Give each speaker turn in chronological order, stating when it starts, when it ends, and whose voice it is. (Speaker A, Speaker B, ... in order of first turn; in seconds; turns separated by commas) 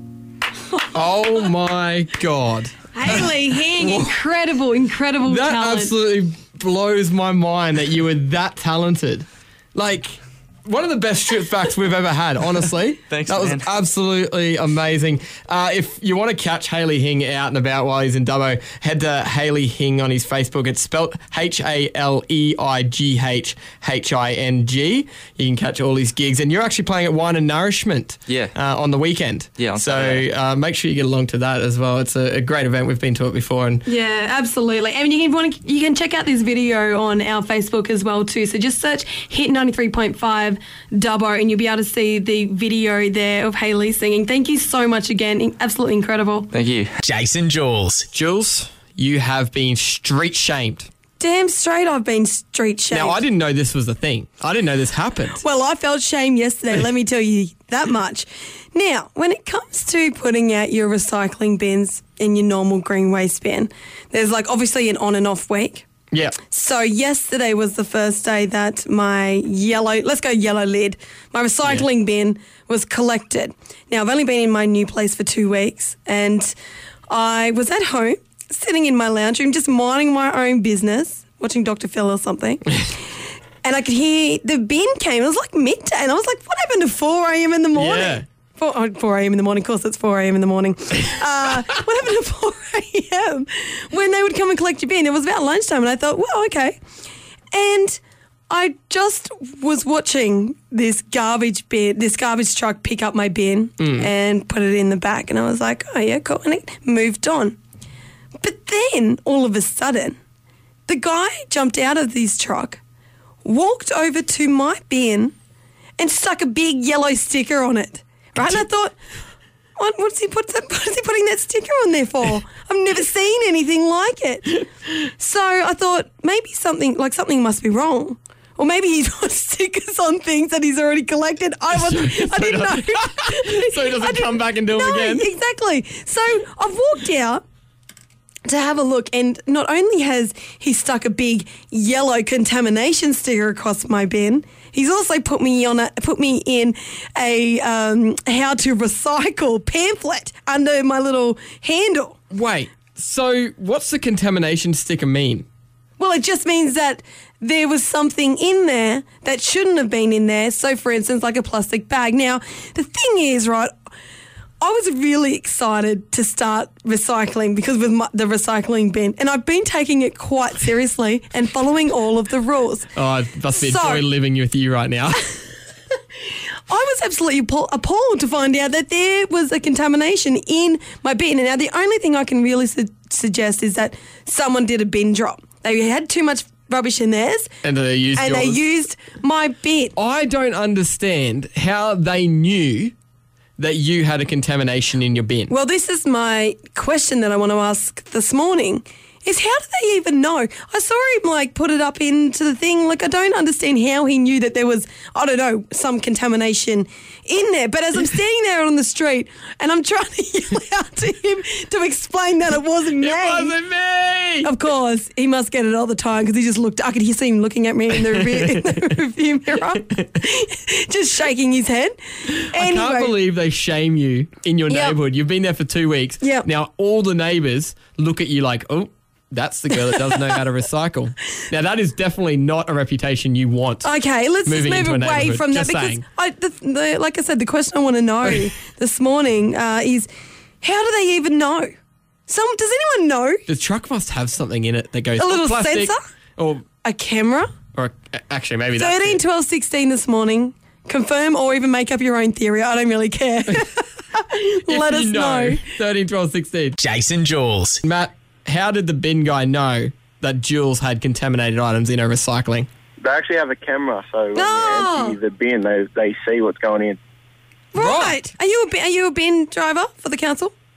Speaker A: 0.9-4.1, Speaker B: 2.9-5.9, Speaker A: 5.3-33.8, Speaker C: 13.1-13.7, Speaker C: 28.3-28.5, Speaker C: 29.6-30.2, Speaker B: 33.9-46.5, Speaker C: 46.5-47.0, Speaker D: 47.0-48.0, Speaker A: 48.1-50.9, Speaker B: 51.2-53.2, Speaker A: 52.9-55.4, Speaker B: 55.4-65.8, Speaker A: 66.1-66.4, Speaker B: 66.5-76.5, Speaker B: 77.1-82.9, Speaker B: 83.6-96.8, Speaker A: 87.7-88.2, Speaker B: 97.5-107.6, Speaker A: 103.8-104.1, Speaker B: 108.4-110.2, Speaker B: 110.9-112.8, Speaker B: 113.4-115.3, Speaker B: 116.0-119.0, Speaker B: 119.8-124.6, Speaker B: 125.2-137.4, Speaker A: 131.7-135.3, Speaker B: 138.4-152.2, Speaker A: 152.3-155.4, Speaker B: 156.0-163.7, Speaker B: 164.6-172.9, Speaker A: 172.9-175.2, Speaker B: 173.5-174.1, Speaker B: 176.2-187.5, Speaker A: 187.6-188.6, Speaker B: 188.1-189.9, Speaker A: 189.9-192.9, Speaker A: 193.6-195.5, Speaker B: 195.5-213.5, Speaker A: 213.0-214.5, Speaker B: 214.4-221.9, Speaker A: 218.0-218.9, Speaker A: 222.3-233.9, Speaker B: 222.5-223.1, Speaker B: 224.7-225.0, Speaker B: 226.2-226.5, Speaker B: 233.8-240.1, Speaker A: 234.4-236.0, Speaker B: 240.6-241.7, Speaker B: 242.3-243.4, Speaker A: 243.5-246.6, Speaker B: 245.2-246.0, Speaker B: 246.8-247.5, Speaker A: 247.7-249.2, Speaker B: 248.8-255.6, Speaker A: 254.7-256.8, Speaker D: 256.8-257.8, Speaker A: 257.8-262.7, Speaker E: 263.0-267.0, Speaker B: 264.3-265.2, Speaker B: 267.7-270.5, Speaker A: 267.8-268.1